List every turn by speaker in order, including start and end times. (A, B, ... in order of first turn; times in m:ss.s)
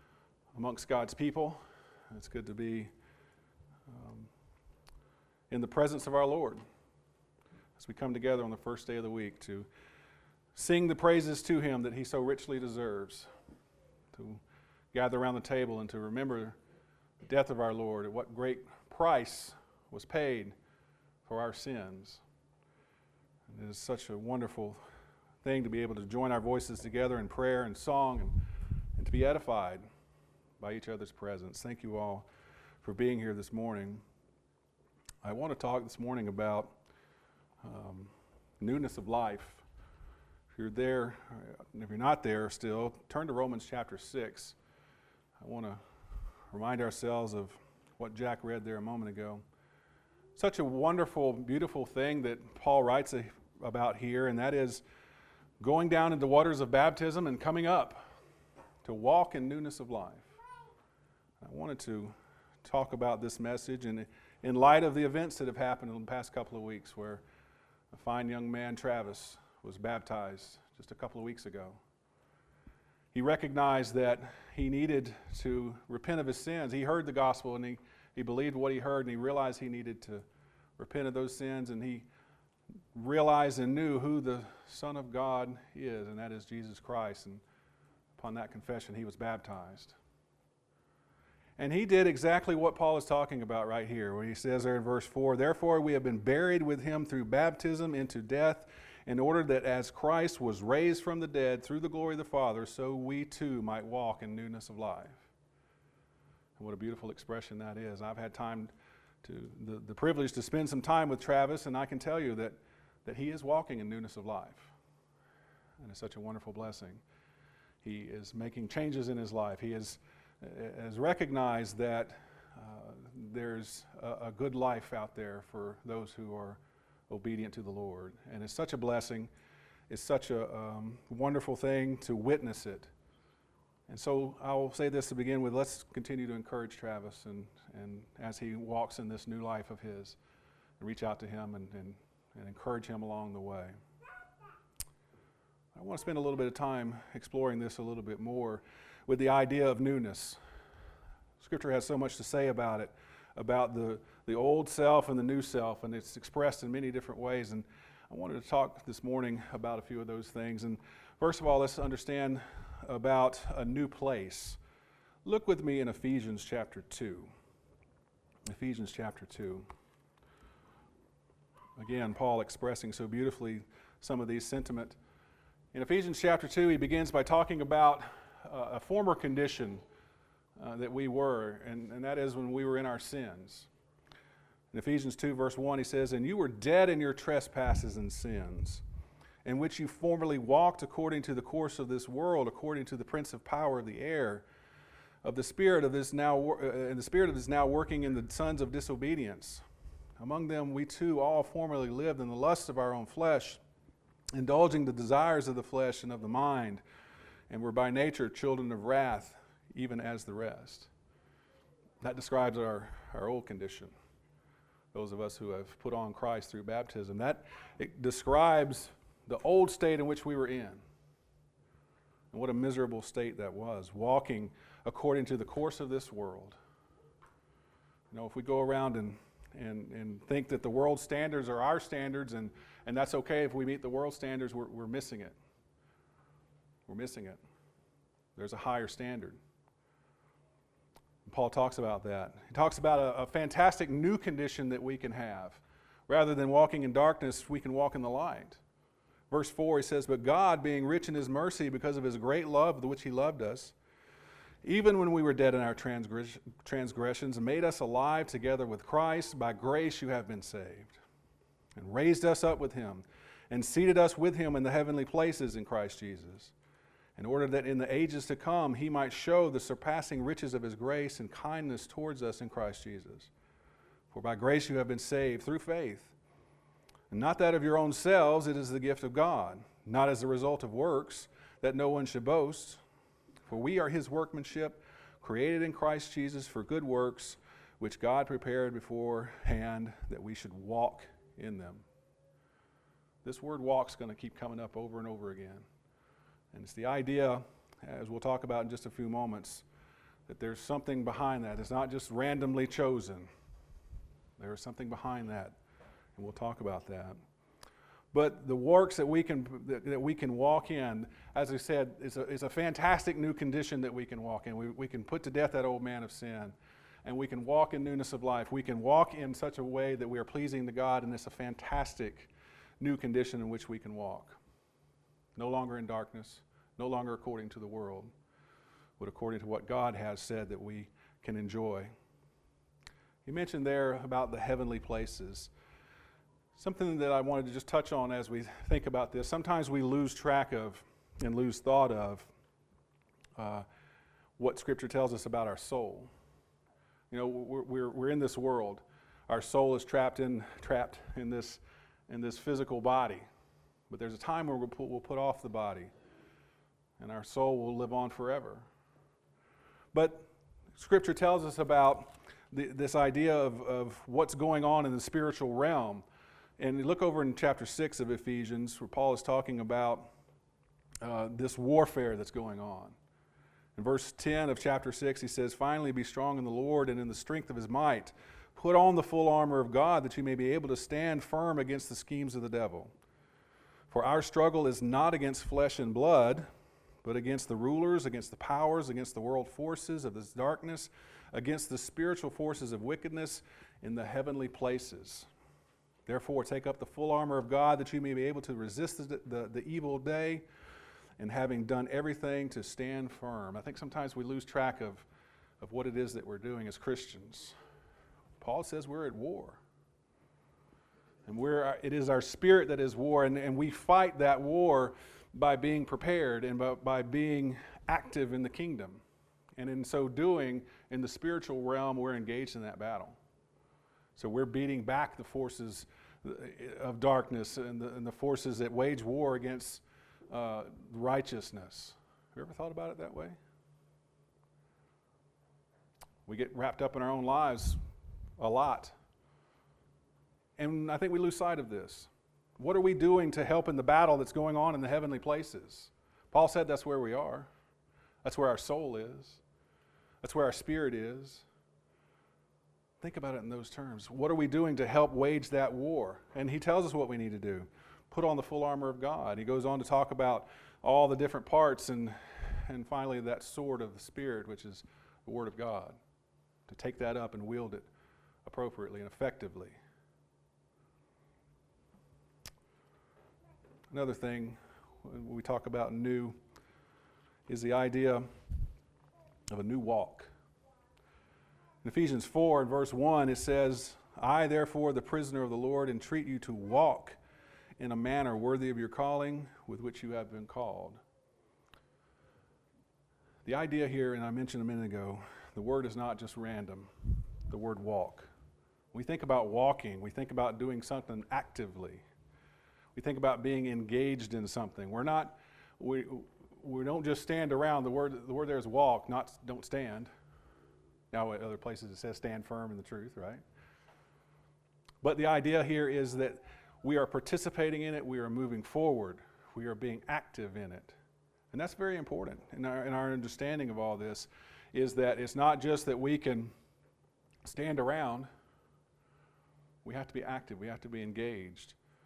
0:00.5-0:02.9 A
0:03.9-0:04.3 A
0:05.5-0:06.6 A
0:07.8-0:09.7 A
0:10.6-0:13.3 A
0:14.1-0:14.4 A
0:14.9-0:16.6 A
0:17.2-0:20.6 A
0:21.2-0:22.2 A
0:23.5-0:24.8 A
0:25.4-0:29.9 A
0:30.6-0:32.3 A
0:32.8-0:34.0 A
0:35.2-0:36.8 A
0:37.6-0:39.6 A
0:40.5-0:44.6 A
0:45.4-0:45.8 A
0:46.5-0:49.4 A
0:50.4-0:54.8 A
0:55.6-0:58.0 A
0:58.8-1:00.4 A
1:01.4-1:07.2 A
1:07.9-1:11.8 A
1:13.1-1:20.3 A
1:20.8-1:22.1 A
1:22.9-1:27.4 A
1:28.2-1:30.0 A
1:31.6-1:45.3 A
1:46.6-1:48.7 A
1:49.2-1:54.7 A
1:55.8-1:57.0 A
1:57.8-2:09.3 A
2:09.9-2:12.9 A
2:13.9-2:20.2 A
2:20.8-2:23.8 A
2:25.8-2:30.4 A
2:31.4-2:44.6 A
2:45.2-2:47.3 A
2:48.5-2:49.7 A
2:51.8-2:55.0 A
2:55.7-2:59.8 A
3:00.6-3:03.7 A
3:04.7-3:08.8 A
3:09.4-3:14.4 A
3:15.2-3:19.6 A
3:20.2-3:23.6 A
3:24.3-3:26.8 A
3:27.5-3:30.9 A
3:32.0-3:33.9 A
3:34.9-3:40.8 A
3:42.3-3:46.6 A
3:48.1-3:55.4 A
3:56.9-3:57.4 A
3:58.4-3:59.4 A
4:01.3-4:08.6 A
4:09.3-4:13.8 A
4:14.6-4:21.0 A
4:21.8-4:26.5 A
4:27.2-4:33.3 A
4:34.1-4:36.2 A
4:37.1-4:42.8 A
4:43.5-4:51.8 A
4:53.2-4:55.7 A
4:56.5-4:59.6 A
5:00.3-5:03.3 A
5:04.4-5:05.6 A
5:06.2-5:07.2 A
5:08.1-5:24.4 A
5:25.4-5:28.1 A
5:29.0-5:31.9 A
5:33.2-5:35.5 A
5:36.6-5:42.3 A
5:43.4-5:43.7 A
5:44.4-5:46.1 A
5:47.1-5:53.2 A
5:53.9-5:55.9 A
5:57.0-5:58.7 A
5:59.9-6:06.0 A
6:06.6-6:10.1 A
6:11.0-6:13.0 A
6:13.8-6:22.9 A
6:23.9-6:26.5 A
6:27.0-6:35.3 A
6:36.1-6:40.4 A
6:41.2-6:45.1 A
6:45.6-6:47.6 A
6:48.4-6:49.6 A
6:51.3-6:59.0 A
6:59.6-7:03.2 A
7:04.2-7:13.4 A
7:16.3-7:17.8 A
7:18.4-7:18.9 A
7:20.6-7:27.5 A
7:28.2-7:29.4 A
7:30.2-7:31.5 A
7:33.0-7:46.0 A
7:46.7-7:47.9 A
7:48.4-7:49.8 A
7:53.9-7:56.4 A
7:57.5-7:58.3 A
7:59.5-8:00.3 A
8:01.8-8:07.2 A
8:07.8-8:11.0 A
8:13.4-8:18.3 A
8:18.9-8:22.0 A
8:23.0-8:30.1 A
8:31.1-8:33.4 A
8:35.0-8:41.0 A
8:41.5-8:46.5 A
8:47.4-8:48.3 A
8:49.8-8:51.8 A